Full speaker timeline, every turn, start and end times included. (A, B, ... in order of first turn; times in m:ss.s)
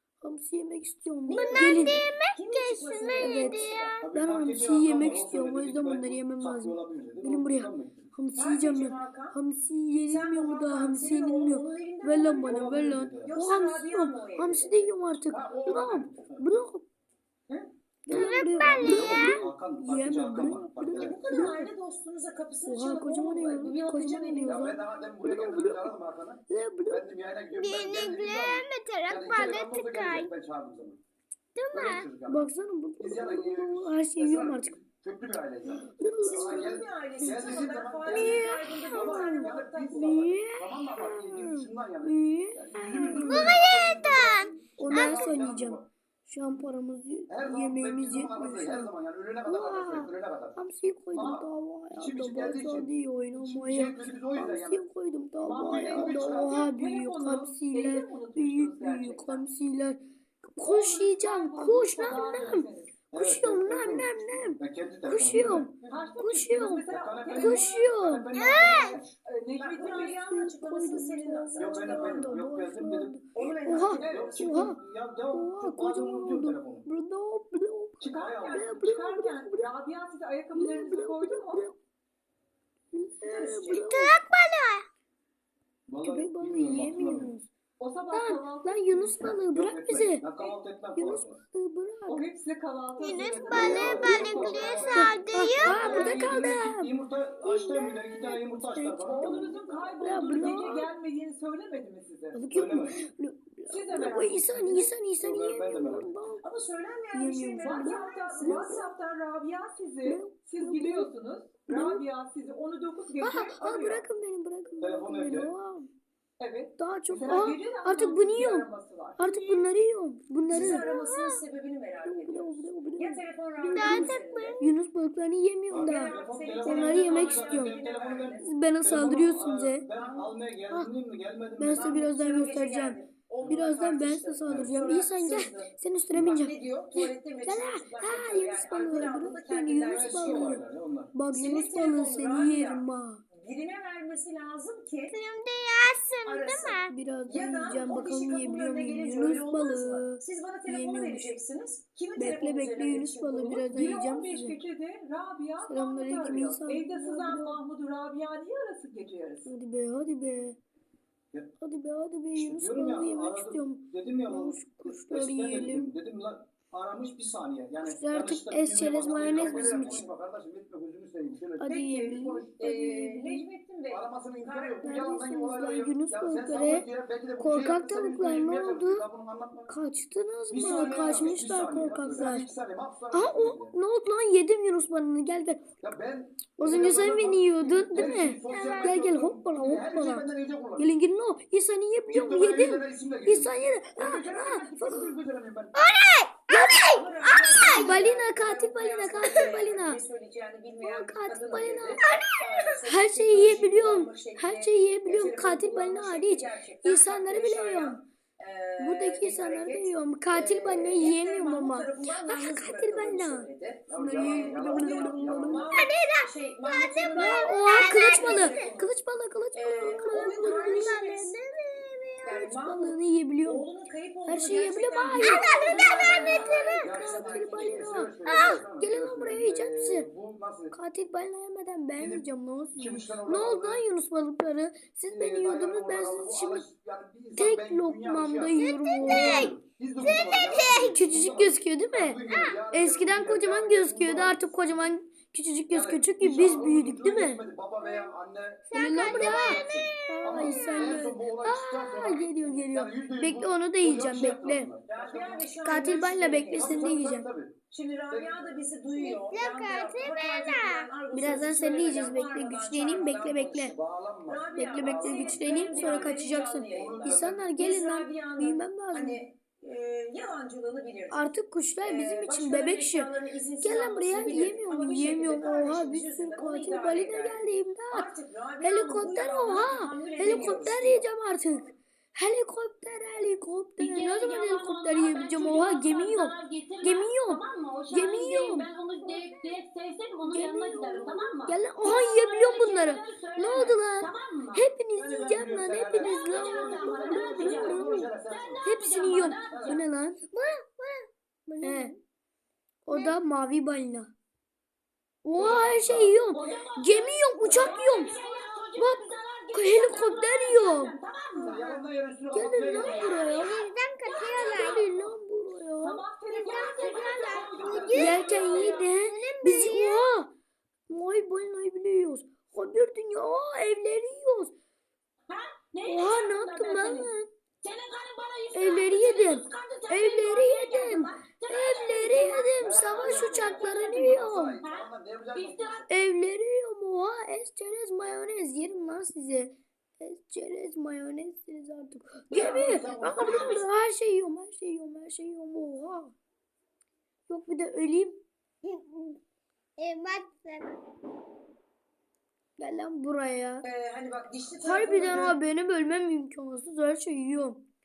0:00.2-0:02.0 A
0:01.3-0:04.0 B
0:01.3-0:04.0 C
0:03.2-0:16.9 A
0:04.0-0:08.1 D
0:08.4-0:09.4 B
0:10.1-0:14.9 B
0:12.5-0:13.3 D
0:15.2-0:16.4 D
0:17.5-0:21.2 D
0:18.0-0:21.7 A
0:18.1-0:19.3 C
0:21.0-0:24.7 B
0:22.7-0:25.9 A
0:24.4-0:31.0 D
0:26.5-0:27.1 A
0:27.5-0:30.3 C
0:31.6-0:32.1 C
0:31.7-0:32.4 D
0:32.3-0:34.7 A
0:33.0-0:45.8 D
0:35.6-0:43.7 A
0:36.2-0:40.2 B
0:43.2-0:45.2 C
0:44.2-0:48.9 A
0:47.3-0:50.6 D
0:49.4-1:08.3 A
0:51.1-0:54.8 D
0:55.4-0:59.4 E
0:55.5-0:56.6 D
1:00.6-1:03.0 E
1:03.1-1:06.0 D
1:05.9-1:07.7 E
1:06.9-1:09.2 D
1:08.3-1:09.0 C
1:09.2-1:10.1 E
1:09.6-1:12.3 B
1:09.8-1:14.8 A
1:11.6-1:13.2 D
1:13.3-1:14.5 B
1:14.0-1:16.9 D
1:15.3-1:19.7 A
1:18.0-1:21.7 E
1:18.1-1:18.7 D
1:20.5-1:21.8 A
1:22.9-1:24.2 A
1:23.3-1:23.9 B
1:23.7-1:24.8 C
1:25.9-1:27.3 D
1:26.0-1:27.5 A
1:27.8-1:29.1 E
1:28.1-1:30.2 A
1:29.2-1:31.4 D
1:31.0-1:32.2 A
1:32.1-1:34.6 E
1:33.0-1:36.2 C
1:33.2-1:39.6 D
1:33.6-1:34.3 A
1:34.9-1:36.9 A
1:37.4-1:40.9 A
1:39.0-1:42.4 E
1:42.3-1:46.4 A
1:42.5-1:43.0 D
1:43.7-1:44.9 E
1:45.2-1:46.1 D
1:46.4-1:48.8 B
1:47.1-1:48.9 A
1:47.6-1:54.0 E
1:50.0-1:51.1 A
1:51.7-1:52.0 A
1:53.2-1:55.9 A
1:54.8-1:55.5 D
1:56.4-1:59.7 E
1:56.8-2:00.8 A
2:00.5-2:00.8 D
2:00.5-2:04.6 B
2:00.7-2:01.4 C
2:02.0-2:07.8 A
2:03.7-2:04.7 C
2:05.7-2:12.1 D
2:05.8-2:08.4 B
2:08.4-2:09.9 A
2:10.0-2:10.3 B
2:11.6-2:20.6 A
2:11.7-2:20.6 B
2:14.5-2:14.8 D
2:19.9-2:21.1 D
2:21.1-2:23.2 A
2:21.3-2:25.2 B
2:25.1-2:26.9 C
2:26.2-2:34.0 B
2:26.9-2:31.3 A
2:32.2-2:34.6 A
2:33.5-2:39.5 E
2:35.6-2:37.6 A
2:39.4-2:40.6 A
2:41.6-2:45.9 A
2:42.3-2:52.5 D
2:47.8-2:50.1 A
2:49.0-2:50.0 B
2:51.6-2:53.4 A
2:51.7-2:54.8 B
2:53.9-2:59.7 D
2:54.8-2:56.9 A
2:57.4-2:59.0 A
2:59.7-3:02.5 A
3:00.5-3:03.7 D
3:03.1-3:05.7 A
3:05.8-3:10.9 D
3:06.6-3:10.2 A
3:08.6-3:08.8 C
3:08.6-3:08.9 B
3:10.8-3:15.1 A
3:12.1-3:15.8 D
3:14.4-3:15.0 B
3:15.7-3:17.9 C
3:16.5-3:38.9 B
3:17.6-3:20.0 A
3:20.8-3:22.0 A
3:22.1-3:22.5 C
3:22.8-3:28.0 A
3:28.8-3:35.7 A
3:33.9-3:35.7 D
3:35.7-3:38.8 C
3:37.1-3:41.0 A
3:39.5-3:41.4 B
3:39.9-3:42.4 C
3:42.2-3:47.9 B
3:42.3-3:43.7 A
3:44.2-3:48.2 A
3:45.2-3:46.9 C
3:46.4-3:50.7 D
3:48.2-3:48.6 C
3:48.7-3:50.1 A
3:50.7-3:56.6 A
3:52.0-3:52.2 D
3:52.8-3:53.8 D
3:55.1-4:04.9 D
3:57.3-3:59.5 A
3:58.6-4:00.9 C
4:00.7-4:02.2 A
4:02.3-4:02.6 C
4:02.7-4:07.4 A
4:05.7-4:15.5 D
4:07.8-4:08.1 C
4:08.7-4:10.9 C
4:08.7-4:14.7 A
4:14.9-4:17.0 B
4:15.6-4:17.3 A
4:16.5-4:17.5 D
4:17.7-4:23.7 B
4:18.1-4:18.5 D
4:18.9-4:20.9 C
4:21.1-4:23.7 A
4:23.6-4:26.2 D
4:24.3-4:31.2 B
4:24.6-4:29.2 A
4:26.7-4:27.4 D
4:31.1-4:33.1 A
4:31.8-4:41.1 B
4:33.6-4:48.7 A
4:43.8-4:54.6 F
4:50.3-4:58.1 A
4:54.9-4:58.6 D
4:56.0-4:59.8 F
4:58.6-5:00.2 A
4:59.5-4:59.8 D
5:00.3-5:02.0 C
5:01.6-5:01.9 A
5:02.8-5:04.1 A
5:05.2-5:08.1 A
5:05.4-5:06.1 D
5:06.3-5:11.8 F
5:08.2-5:08.5 C
5:08.8-5:10.9 A
5:11.3-5:13.3 D
5:12.3-5:13.5 A
5:12.7-5:15.0 F
5:13.3-5:14.8 C
5:14.5-5:16.0 A
5:15.8-5:16.3 E
5:15.9-5:18.9 F
5:16.3-5:20.1 C
5:17.5-5:18.0 E
5:17.9-5:20.3 A
5:20.9-5:24.5 A
5:25.3-5:35.8 F
5:25.8-5:27.3 A
5:28.5-5:34.6 A
5:32.6-5:35.8 D
5:35.9-5:46.1 A
5:42.3-5:43.7 D
5:47.3-5:48.2 A
5:48.6-5:49.2 C
5:49.8-5:50.8 C
5:52.6-5:53.6 A
5:53.6-5:55.4 B
5:54.6-5:57.6 A